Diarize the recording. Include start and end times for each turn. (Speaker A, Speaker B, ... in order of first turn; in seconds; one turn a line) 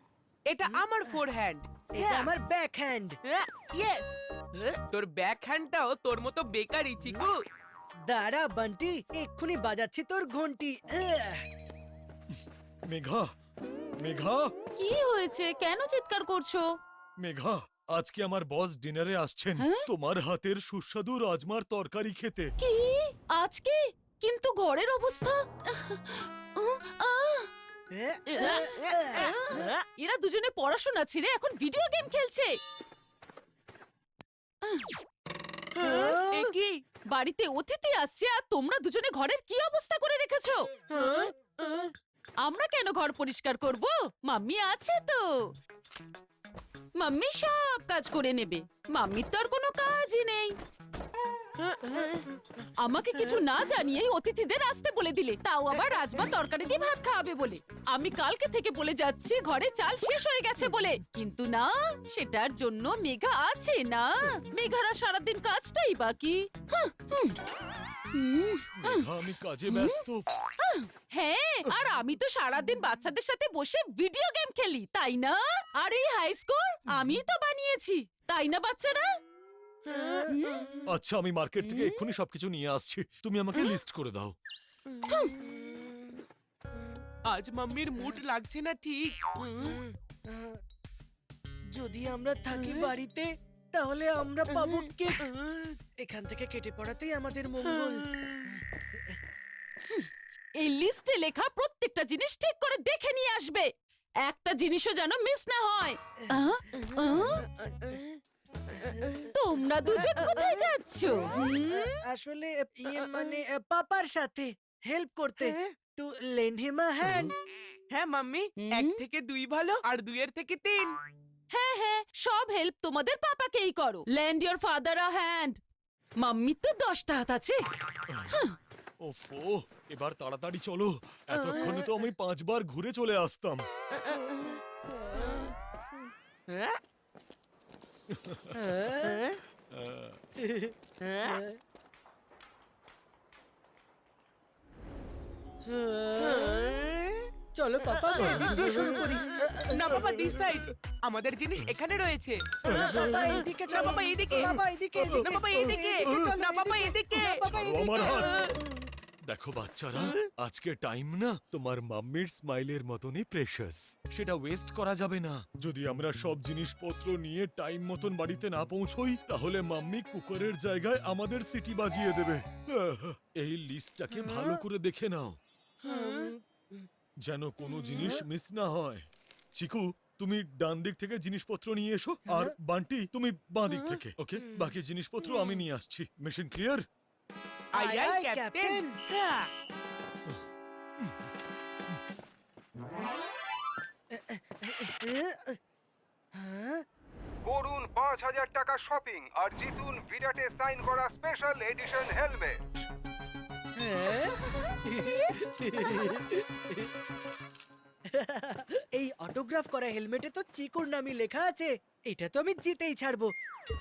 Speaker A: 0.5-2.3
Speaker B: 0.7-1.2
Speaker B: 1.9-3.2
Speaker A: 3.3-7.4
Speaker B: 8.1-11.4
Speaker C: 12.9-13.2
Speaker C: 14.0-14.5
Speaker D: 14.8-16.7
Speaker C: 17.2-22.5
Speaker D: 19.6-19.9
Speaker D: 22.6-27.5
Speaker B: 27.9-29.7
Speaker D: 28.4-32.5
Speaker A: 28.4-29.8
Speaker D: 34.6-34.9
Speaker A: 35.7-36.8
Speaker B: 35.8-36.5
Speaker D: 37.1-40.7
Speaker A: 40.9-41.9
Speaker D: 42.4-45.5
Speaker D: 47.0-50.5
Speaker A: 51.6-52.2
Speaker D: 52.8-67.4
Speaker D: 68.1-69.1
Speaker C: 68.8-70.2
Speaker D: 69.7-70.0
Speaker D: 70.6-79.1
Speaker A: 79.8-80.4
Speaker B: 79.9-80.5
Speaker D: 80.3-80.7
Speaker C: 80.9-84.4
Speaker D: 81.7-82.0
Speaker D: 85.1-85.3
Speaker B: 85.4-86.1
Speaker A: 87.3-89.8
Speaker B: 89.6-90.6
Speaker B: 91.7-95.3
Speaker A: 92.6-92.9
Speaker A: 94.7-95.8
Speaker B: 96.0-98.6
Speaker A: 97.6-98.6
Speaker D: 100.6-103.7
Speaker D: 104.2-107.5
Speaker D: 109.2-112.0
Speaker B: 111.5-117.3
Speaker A: 117.9-121.0
Speaker D: 118.6-119.0
Speaker D: 121.5-125.6
Speaker D: 126.2-127.6
Speaker C: 128.1-128.3
Speaker C: 129.0-133.7
Speaker A: 136.5-136.8
Speaker C: 138.1-138.6
Speaker B: 138.5-139.3
Speaker A: 139.1-139.3
Speaker C: 139.7-140.2
Speaker B: 140.4-141.6
Speaker A: 141.0-141.4
Speaker B: 145.6-146.8
Speaker A: 146.2-147.2
Speaker B: 147.5-150.0
Speaker A: 148.2-149.2
Speaker A: 149.7-157.4
Speaker B: 152.7-158.6
Speaker C: 152.7-153.1
Speaker C: 157.2-158.5
Speaker C: 159.2-175.4
Speaker B: 174.2-174.6
Speaker A: 175.8-176.3
Speaker B: 175.9-176.7
Speaker C: 177.2-186.8
Speaker A: 183.7-184.0
Speaker B: 184.4-184.7
Speaker A: 187.7-189.5
Speaker B: 187.8-188.9
Speaker B: 194.1-195.6
Speaker B: 196.3-196.8
Speaker E: 197.4-202.8
Speaker B: 203.8-206.9
Speaker B: 208.1-213.3